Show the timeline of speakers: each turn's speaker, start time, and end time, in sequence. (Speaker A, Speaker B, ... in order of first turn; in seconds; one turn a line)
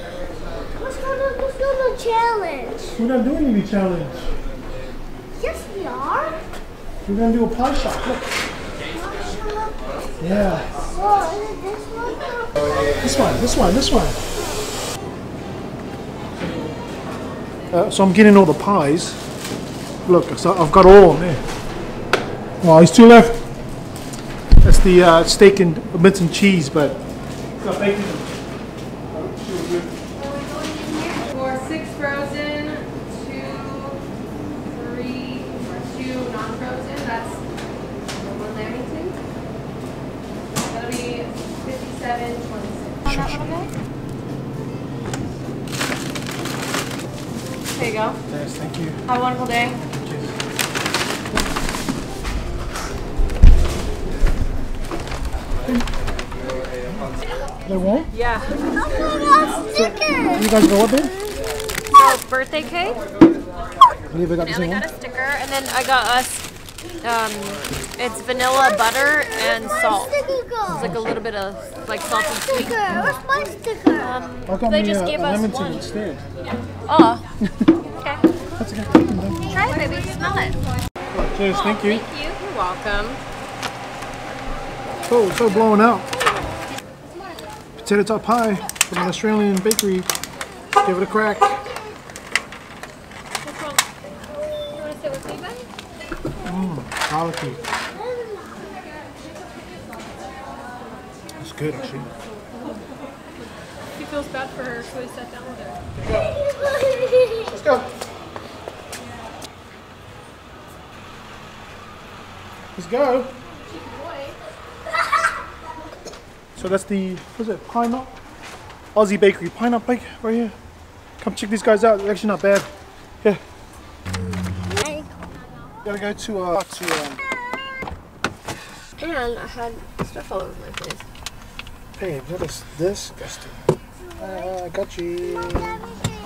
Speaker A: 0.8-3.0
Speaker B: 3.0-4.3
Speaker A: 5.3-6.4
Speaker B: 7.0-8.3
Speaker A: 8.9-10.0
Speaker B: 10.2-10.7
Speaker A: 10.9-12.6
Speaker B: 13.0-14.2
Speaker B: 17.7-19.2
Speaker B: 20.1-21.4
Speaker B: 22.6-23.4
Speaker B: 24.6-27.0
Speaker B: 27.6-28.3
Speaker B: 29.1-29.9
Speaker C: 30.1-34.0
Speaker C: 34.7-37.4
Speaker C: 38.1-39.2
Speaker C: 40.5-43.7
Speaker B: 43.0-43.7
Speaker C: 47.7-48.2
Speaker B: 48.3-49.0
Speaker C: 49.0-49.8
Speaker B: 49.9-50.4
Speaker B: 56.9-57.1
Speaker B: 57.6-58.1
Speaker C: 58.1-58.5
Speaker A: 58.9-60.5
Speaker B: 59.7-61.1
Speaker C: 61.9-63.0
Speaker B: 64.1-64.8
Speaker C: 64.4-66.5
Speaker C: 67.0-72.8
Speaker A: 69.5-70.8
Speaker B: 70.7-71.2
Speaker A: 72.1-74.1
Speaker C: 74.0-75.9
Speaker B: 74.5-76.2
Speaker C: 76.8-77.2
Speaker B: 77.5-77.7
Speaker C: 78.0-78.2
Speaker B: 78.6-79.5
Speaker C: 79.5-80.6
Speaker B: 81.1-82.0
Speaker C: 81.5-83.2
Speaker B: 85.0-86.1
Speaker A: 86.3-86.6
Speaker B: 87.8-90.1
Speaker B: 90.8-91.6
Speaker C: 93.4-93.8
Speaker C: 94.5-95.7
Speaker B: 96.4-97.6
Speaker A: 97.9-98.8
Speaker B: 101.4-102.1
Speaker C: 102.5-102.8
Speaker C: 103.9-105.8
Speaker B: 106.0-106.3
Speaker A: 106.2-107.5
Speaker B: 107.5-107.9
Speaker B: 112.7-113.3
Speaker B: 116.5-118.2
Speaker B: 118.9-120.5
Speaker B: 121.2-122.7
Speaker A: 124.6-125.1
Speaker B: 125.8-127.2
Speaker C: 129.0-131.0
Speaker B: 131.9-133.6
Speaker B: 134.2-135.8